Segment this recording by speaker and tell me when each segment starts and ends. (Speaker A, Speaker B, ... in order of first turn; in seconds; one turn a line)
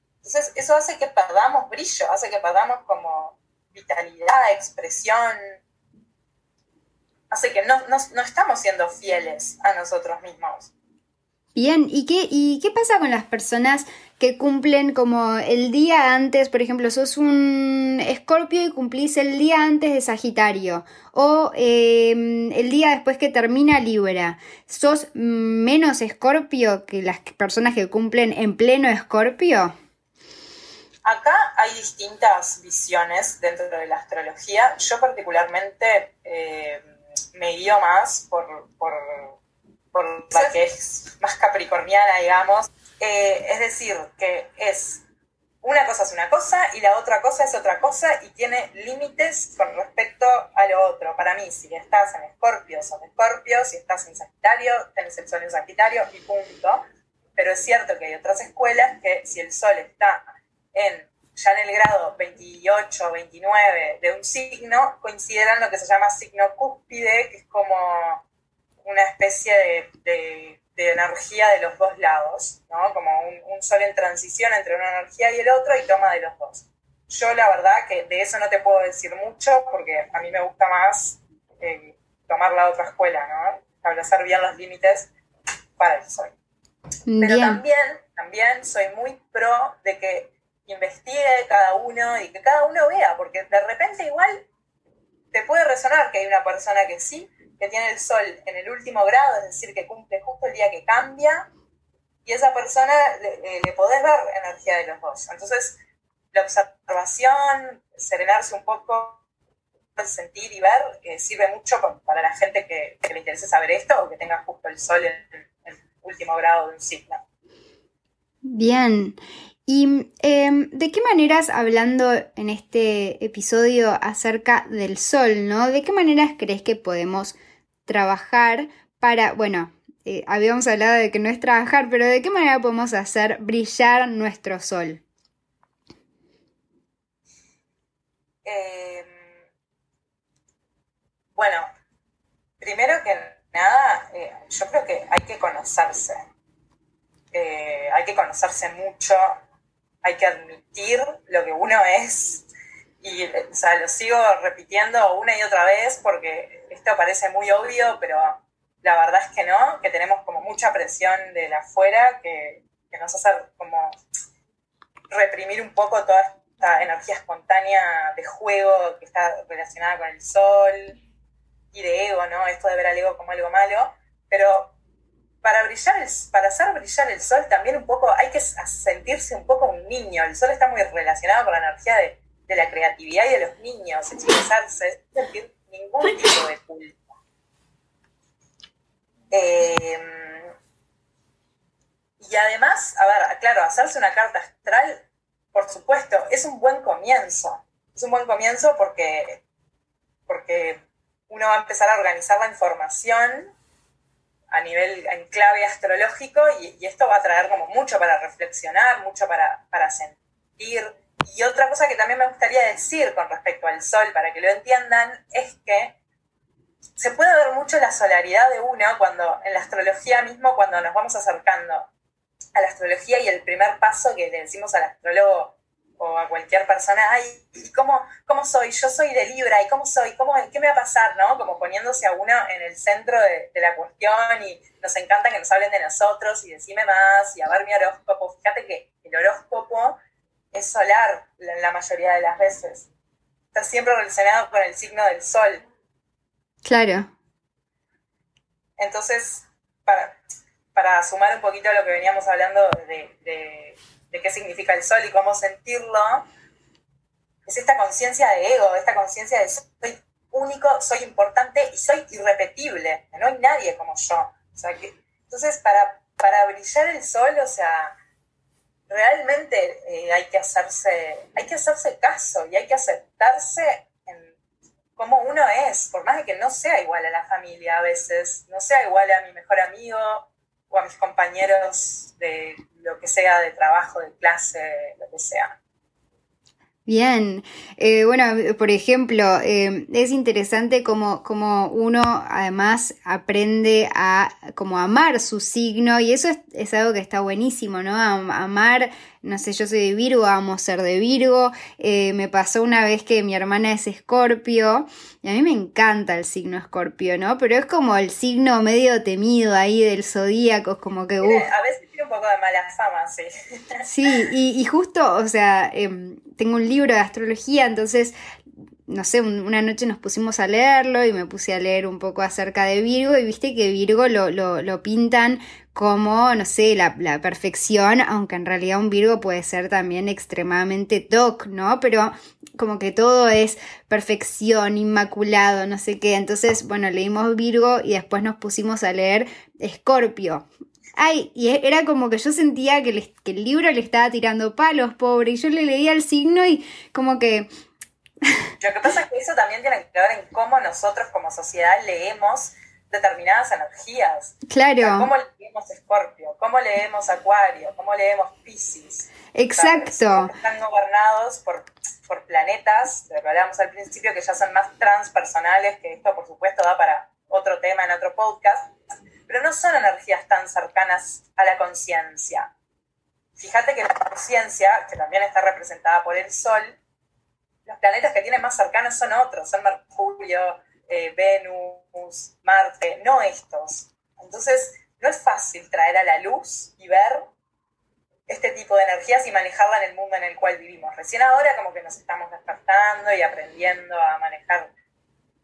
Speaker A: 0.2-5.4
Speaker A: 7.3-10.7
Speaker B: 11.6-29.7
Speaker A: 31.0-36.8
Speaker A: 37.3-39.3
Speaker A: 39.9-45.0
Speaker A: 45.6-56.8
Speaker A: 57.4-68.2
Speaker A: 68.8-85.1
Speaker A: 85.8-86.3
Speaker B: 87.1-87.6
Speaker A: 87.2-94.5
Speaker A: 95.3-101.5
Speaker A: 102.2-105.8
Speaker A: 106.3-109.2
Speaker A: 110.0-117.2
Speaker B: 118.5-135.0
Speaker A: 138.4-139.3
Speaker A: 141.3-141.7
Speaker A: 142.6-146.2
Speaker A: 147.3-149.4
Speaker A: 150.0-152.4
Speaker A: 153.0-163.9
Speaker A: 165.1-171.0
Speaker A: 171.7-174.7
Speaker A: 175.4-187.0
Speaker A: 189.3-190.5
Speaker A: 192.2-199.4
Speaker A: 200.3-203.5
Speaker A: 204.5-216.0
Speaker A: 217.0-221.9
Speaker A: 222.6-240.0
Speaker A: 240.5-242.9
Speaker A: 243.5-245.7
Speaker B: 246.6-247.1
Speaker A: 248.8-250.2
Speaker A: 250.7-256.3
Speaker A: 257.4-267.9
Speaker A: 268.9-274.3
Speaker A: 274.9-285.6
Speaker B: 286.9-311.4
Speaker A: 311.2-313.8
Speaker B: 313.8-318.1
Speaker B: 318.9-347.5
Speaker A: 348.6-368.7
Speaker B: 354.5-355.1
Speaker B: 359.3-360.3
Speaker A: 369.3-372.5
Speaker A: 373.4-376.8
Speaker A: 377.6-387.3
Speaker A: 388.3-394.7